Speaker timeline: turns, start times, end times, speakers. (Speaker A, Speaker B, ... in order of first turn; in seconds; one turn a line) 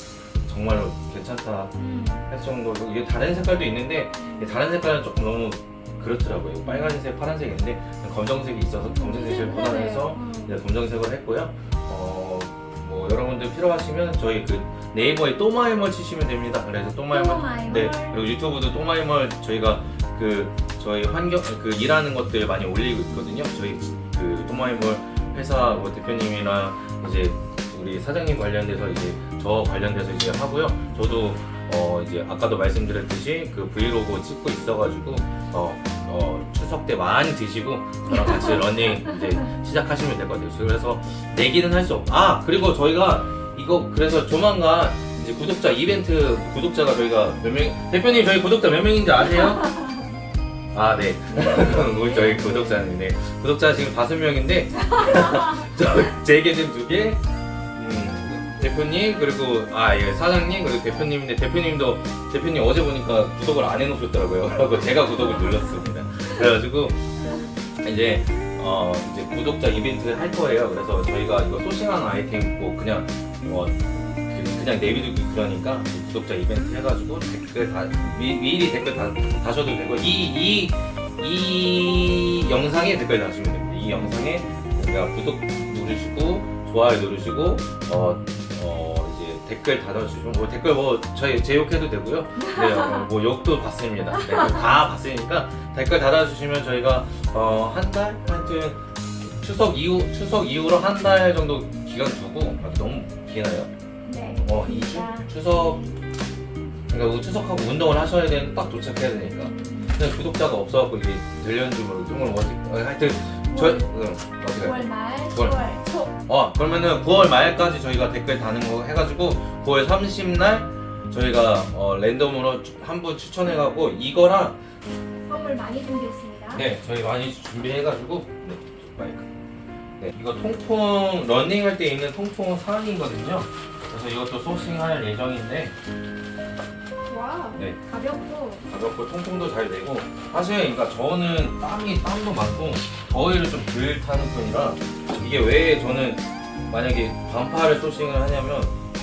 Speaker A: 0.4-49.8
Speaker B: 1.8-2.3
Speaker B: 4.2-4.5
Speaker B: 6.6-6.9
Speaker B: 8.9-10.6
Speaker B: 17.1-18.2
Speaker B: 38.1-39.2
Speaker A: 50.7-57.2
Speaker B: 51.3-52.8
Speaker B: 54.9-55.7
Speaker A: 57.7-103.7
Speaker B: 65.3-65.6
Speaker B: 92.4-93.1
Speaker B: 94.1-94.7
Speaker B: 104.0-106.0
Speaker A: 104.4-105.8
Speaker A: 106.9-115.6
Speaker B: 109.4-110.0
Speaker B: 113.5-113.9
Speaker B: 114.5-116.1
Speaker A: 116.3-124.6
Speaker B: 125.3-126.7
Speaker A: 126.5-129.3
Speaker A: 130.0-135.7
Speaker B: 137.1-138.7
Speaker A: 138.7-148.8